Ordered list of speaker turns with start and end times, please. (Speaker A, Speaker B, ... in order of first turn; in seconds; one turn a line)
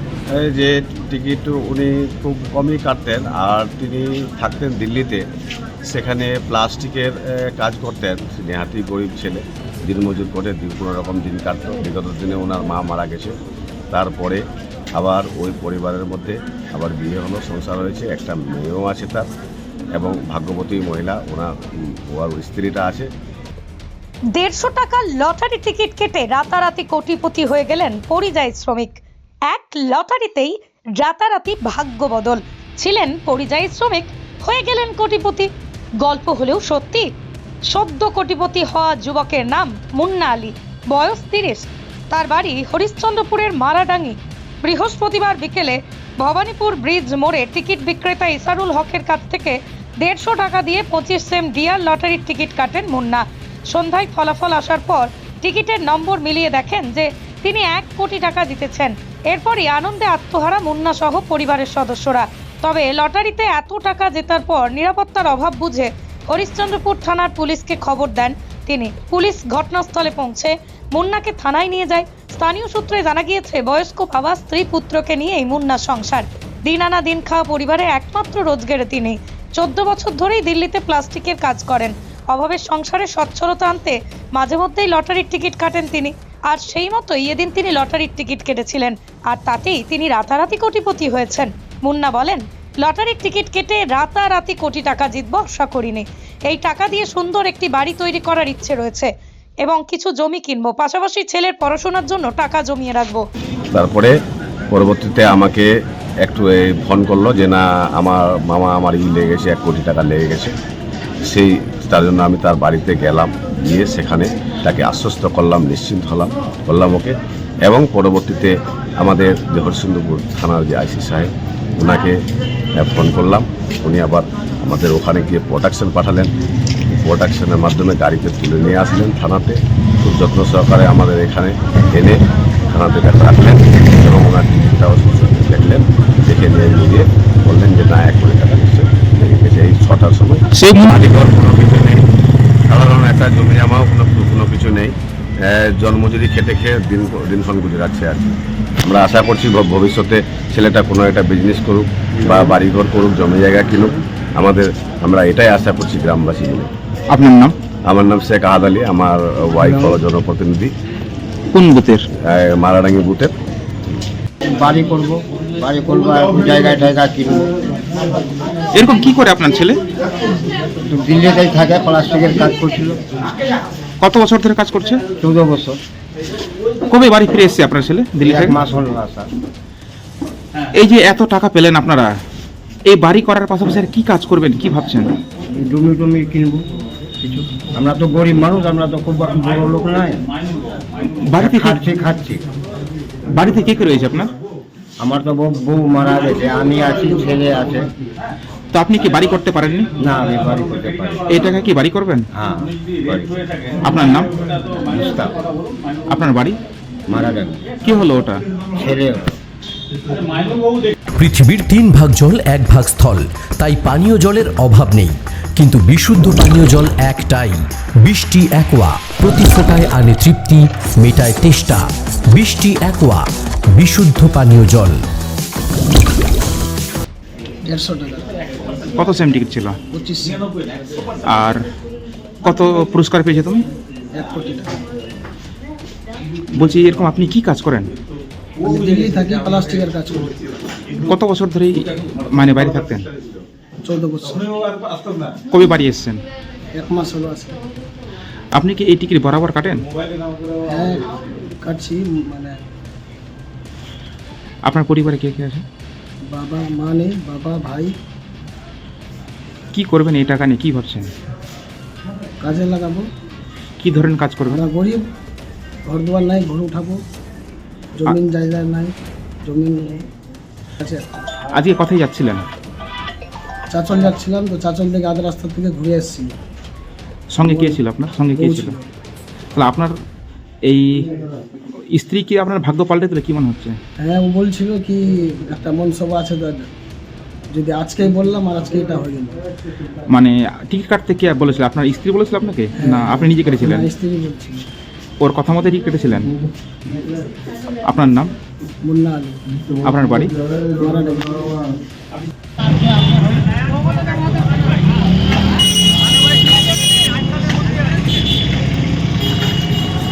Speaker A: 0.4-5.2
Speaker A: 5.9-13.3
Speaker A: 13.9-14.4
Speaker A: 14.9-19.2
Speaker A: 19.9-21.5
Speaker A: 22.1-23.1
Speaker B: 24.3-35.5
Speaker B: 36.0-37.1
Speaker B: 37.7-99.1
Speaker B: 99.6-103.2
Speaker A: 103.7-104.1
Speaker A: 104.7-105.7
Speaker A: 106.2-110.5
Speaker A: 111.3-122.1
Speaker A: 122.8-126.3
Speaker A: 127.0-132.2
Speaker A: 132.7-142.0
Speaker C: 140.6-141.0
Speaker A: 142.7-156.7
Speaker C: 157.1-157.5
Speaker A: 157.9-160.7
Speaker D: 159.7-159.9
Speaker C: 161.5-162.0
Speaker A: 162.3-163.3
Speaker D: 164.6-167.4
Speaker C: 168.7-169.8
Speaker D: 170.9-172.9
Speaker C: 174.0-175.0
Speaker D: 175.2-175.8
Speaker C: 176.9-178.6
Speaker D: 178.2-179.2
Speaker C: 180.8-182.1
Speaker C: 182.9-185.1
Speaker D: 185.6-186.6
Speaker D: 187.2-190.1
Speaker C: 191.3-191.8
Speaker D: 191.4-192.4
Speaker C: 193.3-194.3
Speaker D: 195.0-197.8
Speaker C: 198.7-199.9
Speaker D: 200.0-201.2
Speaker C: 201.3-202.2
Speaker D: 202.3-203.3
Speaker C: 203.8-204.2
Speaker D: 204.9-205.3
Speaker C: 206.1-206.6
Speaker D: 207.1-207.6
Speaker C: 207.8-208.4
Speaker D: 208.8-209.3
Speaker E: 211.2-223.2
Speaker E: 223.7-225.0
Speaker F: 227.7-228.3
Speaker C: 229.0-229.7
Speaker F: 229.9-230.8
Speaker C: 231.3-231.6
Speaker C: 232.4-233.6
Speaker F: 234.2-234.8
Speaker C: 236.6-237.9
Speaker F: 238.6-240.3
Speaker C: 241.1-243.1
Speaker F: 243.8-244.4
Speaker C: 245.5-246.2
Speaker F: 246.8-247.5
Speaker C: 248.5-249.8
Speaker F: 250.7-251.0
Speaker F: 251.6-252.5
Speaker C: 254.7-255.6
Speaker F: 256.3-257.9
Speaker C: 259.7-261.1
Speaker F: 262.4-263.0
Speaker C: 263.8-264.6
Speaker F: 264.5-265.0
Speaker F: 265.9-267.0
Speaker F: 268.0-268.9
Speaker F: 269.4-270.0
Speaker C: 271.6-272.5
Speaker F: 273.7-276.3
Speaker C: 277.3-278.8
Speaker F: 277.4-277.8
Speaker F: 278.4-278.8
Speaker C: 279.6-279.9
Speaker C: 280.6-281.1
Speaker C: 281.9-283.8
Speaker F: 284.1-285.0
Speaker F: 285.5-286.7
Speaker F: 287.5-289.3
Speaker C: 290.1-293.9
Speaker F: 293.6-294.6
Speaker C: 295.2-296.3
Speaker C: 297.9-298.3
Speaker F: 299.0-299.4
Speaker C: 299.9-300.3
Speaker F: 300.8-301.4